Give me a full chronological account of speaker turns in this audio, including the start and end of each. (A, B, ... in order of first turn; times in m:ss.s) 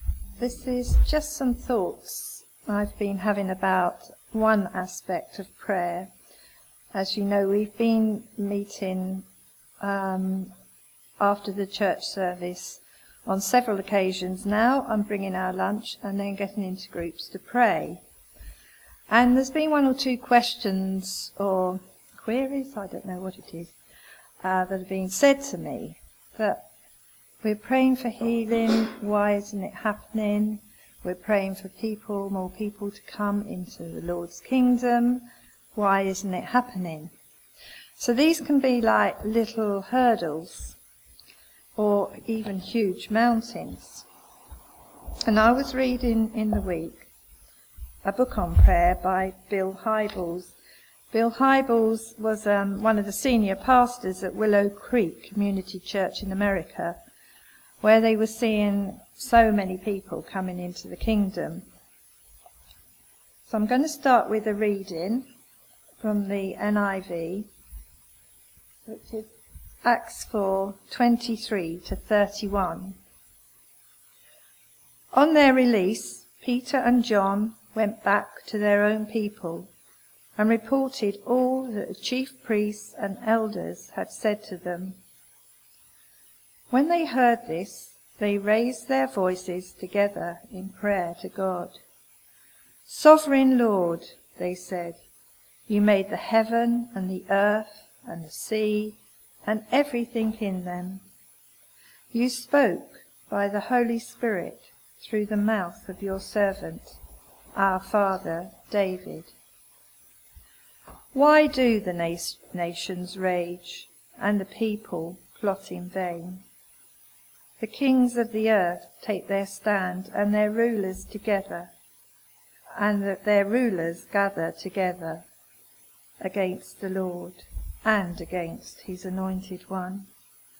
0:00.4-0:06.1 A
0:06.9-0:09.2 A
0:09.8-0:10.5 A
0:11.2-0:18.0 A
0:19.1-0:23.7 A
0:24.4-0:26.6 A
0:27.4-0:37.1 A
0:38.0-0:40.8 A
0:41.8-0:44.0 A
0:45.2-0:47.1 A
0:48.0-0:50.5 A
0:51.1-0:57.0 A
0:57.8-1:01.6 A
1:03.5-1:05.2 A
1:06.0-1:07.5 A
1:08.9-1:09.3 A
1:09.8-1:13.0 A
1:15.1-1:19.7 A
1:20.4-1:25.0 A
1:26.7-1:31.8 A
1:32.8-1:35.0 A
1:35.7-1:41.0 A
1:42.1-1:47.0 A
1:47.5-1:49.3 A
1:51.1-1:56.4 A
1:57.6-2:01.7 A
2:02.8-2:05.2 A
2:06.2-2:10.1 A